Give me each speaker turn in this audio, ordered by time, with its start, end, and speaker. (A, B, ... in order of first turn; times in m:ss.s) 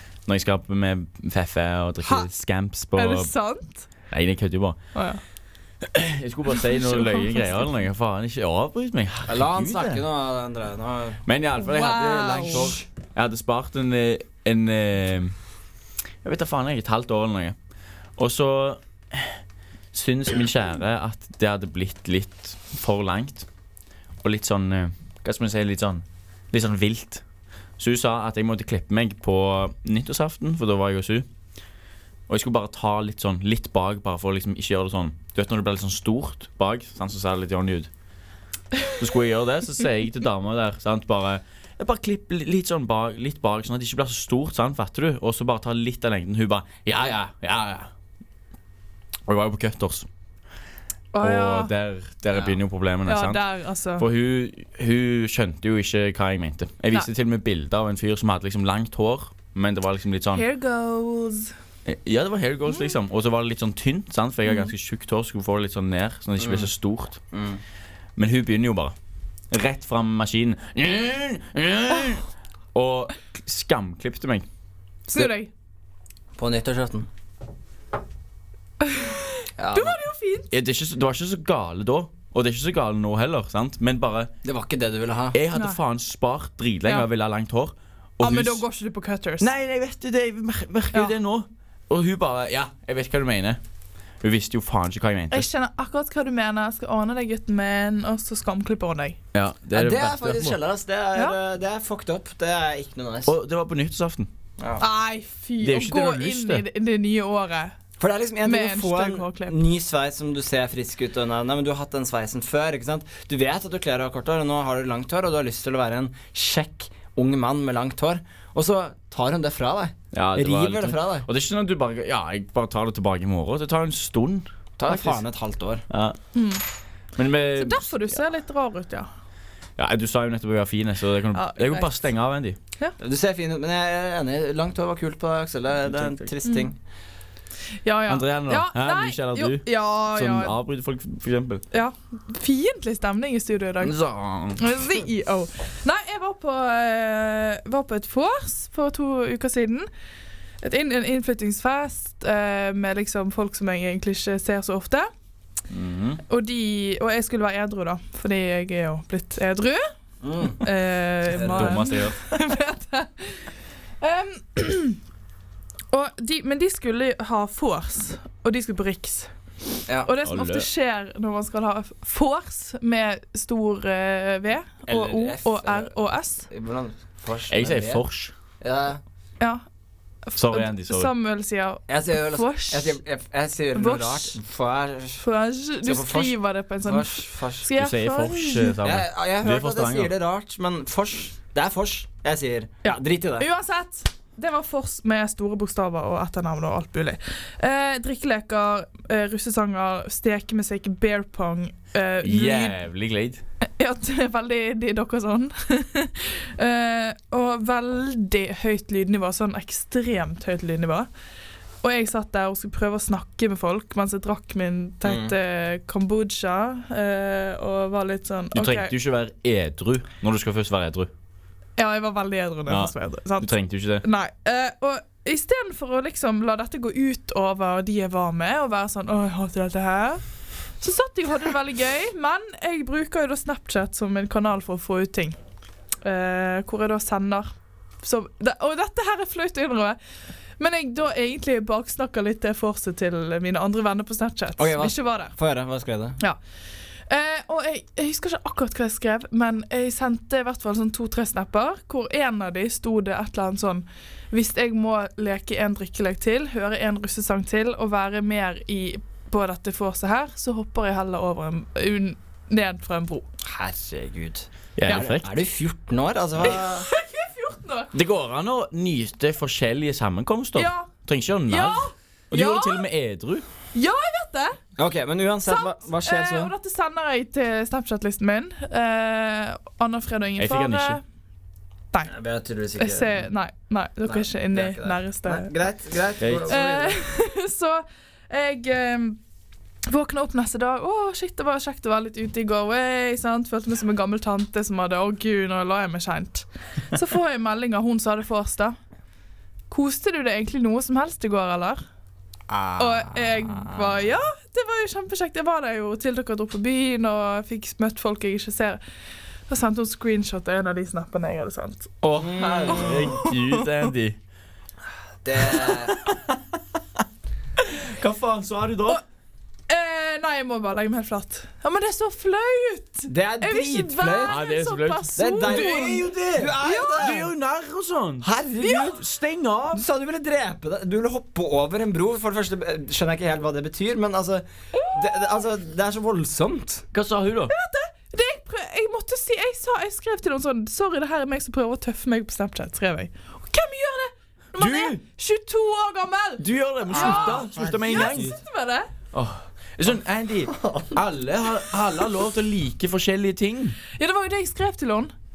0:00.3-0:03.3 A
0:02.0-0:02.3 B
0:02.9-0:03.9 B
0:04.1-0:04.8 A
0:05.0-0:05.2 B
0:05.8-0:10.0 A
0:06.6-0:07.7 B
0:09.3-0:11.2 C
0:11.3-0:15.3 A
0:11.6-0:12.8 B
0:16.2-0:17.6 A
0:18.2-0:19.4 A
0:19.9-0:23.5 A
0:24.2-0:27.2 A
0:27.8-0:31.3 A
0:32.3-0:37.9 A
0:39.0-0:47.9 A
0:49.3-0:50.1 A
0:51.1-0:51.7 B
0:51.2-0:53.4 A
0:53.1-0:54.1 B
0:54.0-1:00.4 A
1:00.3-1:01.5 B
1:01.8-1:07.2 A
1:06.4-1:06.7 C
1:07.3-1:07.6 C
1:08.2-1:09.0 A
1:09.5-1:14.5 A
1:15.1-1:15.5 B
1:16.4-1:17.1 C
1:18.8-1:20.5 B
1:19.6-1:20.0 C
1:20.5-1:24.3 A
1:24.4-1:25.4 C
1:25.3-1:28.6 A
1:28.2-1:29.5 B
1:29.4-1:33.6 A
1:34.2-1:35.5 A
1:35.3-1:39.2 B
1:39.3-1:40.6 A
1:39.7-1:43.3 C
1:43.3-1:44.3 A
1:44.8-1:47.8 B
1:45.6-1:46.6 A
1:48.0-2:01.3 C
1:48.4-1:49.6 B
2:00.1-2:05.2 A
2:04.8-2:05.9 C
2:05.9-2:06.2 A
2:06.3-2:06.6 B
2:07.2-2:08.0 A
2:07.6-2:09.1 B
2:09.8-2:12.6 A
2:11.3-2:12.0 B
2:13.0-2:16.8 C
2:15.9-2:16.3 A
2:17.8-2:20.6 B
2:18.1-2:21.6 A
2:21.7-2:24.0 B
2:23.8-2:24.8 A
2:24.6-2:29.9 B
2:30.6-2:35.1 B
2:35.7-2:36.2 A
2:36.3-2:39.8 B
2:40.2-2:40.6 C
2:40.6-2:43.5 B
2:41.3-2:41.8 C
2:41.5-2:42.3 A
2:44.0-2:45.0 B
2:45.9-2:49.3 B
2:50.0-2:56.5 B
2:50.2-2:50.7 A
2:54.9-2:55.9 C
2:56.5-2:58.0 C
2:57.5-2:58.3 A
2:58.6-2:59.0 C
3:00.3-3:03.0 B
3:00.4-3:01.1 A
3:01.9-3:05.2 C
3:03.7-3:04.4 B
3:05.2-3:08.8 B
3:05.8-3:07.7 C
3:07.7-3:10.1 A
3:08.8-3:13.5 C
3:12.8-3:22.8 B
3:22.2-3:23.4 A
3:23.6-3:31.1 B
3:31.8-3:38.9 B
3:35.0-3:35.3 C
3:38.5-3:41.1 A
3:41.8-3:50.2 B
3:42.7-3:44.0 A
3:50.8-3:55.4 B
3:56.0-3:57.5 B
3:58.0-4:00.0 B
4:00.6-4:05.3 B
4:04.6-4:06.2 C
4:07.1-4:23.3 B
4:23.4-4:26.9 C
4:24.8-4:25.3 A
4:26.4-4:27.9 B
4:27.9-4:33.4 A
4:30.6-4:30.9 B
4:31.5-4:32.8 B
4:33.7-4:34.6 B
4:34.8-4:36.5 C
4:35.5-4:41.0 B
4:40.4-4:41.0 A
4:42.1-4:43.2 C
4:42.8-4:45.5 B
4:44.1-4:47.0 C
4:46.2-4:46.6 A
4:46.5-4:49.2 B
4:49.9-4:58.8 B
4:59.7-5:01.8 B
5:02.5-5:03.6 C
5:02.8-5:08.8 B
5:09.5-5:13.5 B
5:12.0-5:14.2 A
5:12.2-5:13.1 C
5:15.2-5:16.0 C
5:15.6-5:16.4 A
5:17.8-5:19.0 A
5:19.7-5:27.2 B
5:23.1-5:24.4 C
5:24.2-5:29.8 A
5:25.2-5:27.3 C
5:28.2-5:29.0 C
5:29.7-5:36.9 C
5:34.7-5:35.2 B
5:36.9-5:37.5 A
5:37.5-5:48.9 B
5:44.6-5:45.0 A
5:46.4-5:48.3 A
5:47.0-5:48.3 C
5:49.1-5:53.8 A
5:54.0-5:55.1 B